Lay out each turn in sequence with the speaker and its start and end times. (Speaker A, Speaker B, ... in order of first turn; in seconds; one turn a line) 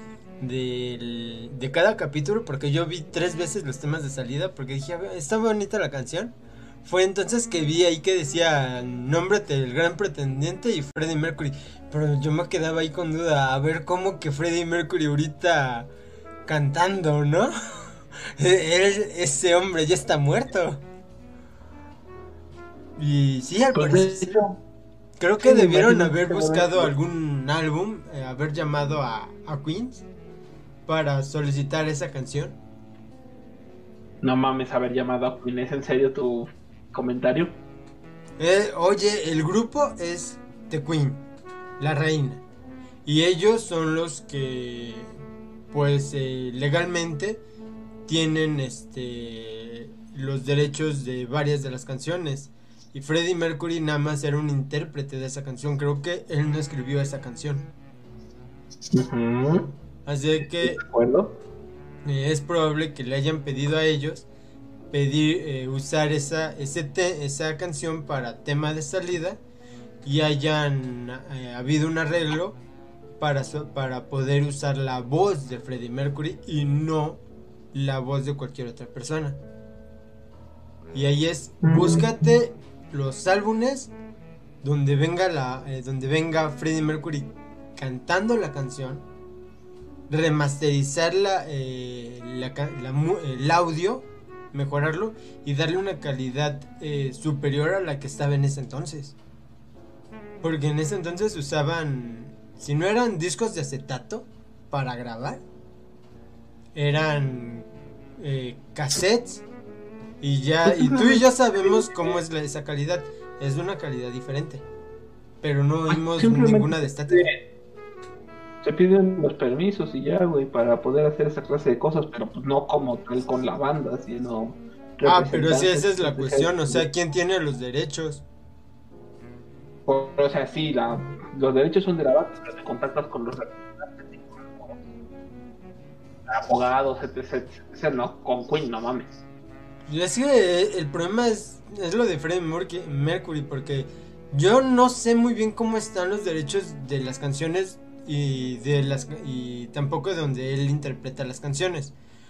Speaker A: 0.4-15.9
Speaker A: 16.4-20.8
Speaker A: 23.0-24.4
Speaker B: 23.7-24.6
Speaker A: 25.2-30.1
Speaker B: 25.4-26.9
Speaker A: 30.9-32.6
Speaker B: 34.2-37.5
Speaker A: 38.4-41.2
Speaker A: 41.8-42.4
Speaker A: 43.0-45.1
Speaker A: 45.7-47.4
Speaker A: 48.0-57.7
Speaker B: 58.9-59.7
Speaker A: 60.0-60.8
Speaker B: 60.4-61.3
Speaker A: 62.0-64.2
Speaker A: 64.9-69.4
Speaker A: 70.0-72.6
Speaker A: 73.2-77.2
Speaker A: 77.7-79.4
Speaker A: 80.9-83.9
Speaker B: 81.6-82.3
Speaker A: 84.6-89.0
Speaker A: 90.1-99.1
Speaker A: 100.4-105.4
Speaker A: 106.7-107.7
Speaker A: 108.2-109.4
Speaker A: 110.2-114.6
Speaker B: 110.6-112.2
Speaker A: 115.4-117.3
Speaker B: 115.9-117.3
Speaker B: 118.6-126.8
Speaker A: 125.0-128.2
Speaker B: 129.9-134.8
Speaker B: 136.3-139.1
Speaker A: 139.9-151.9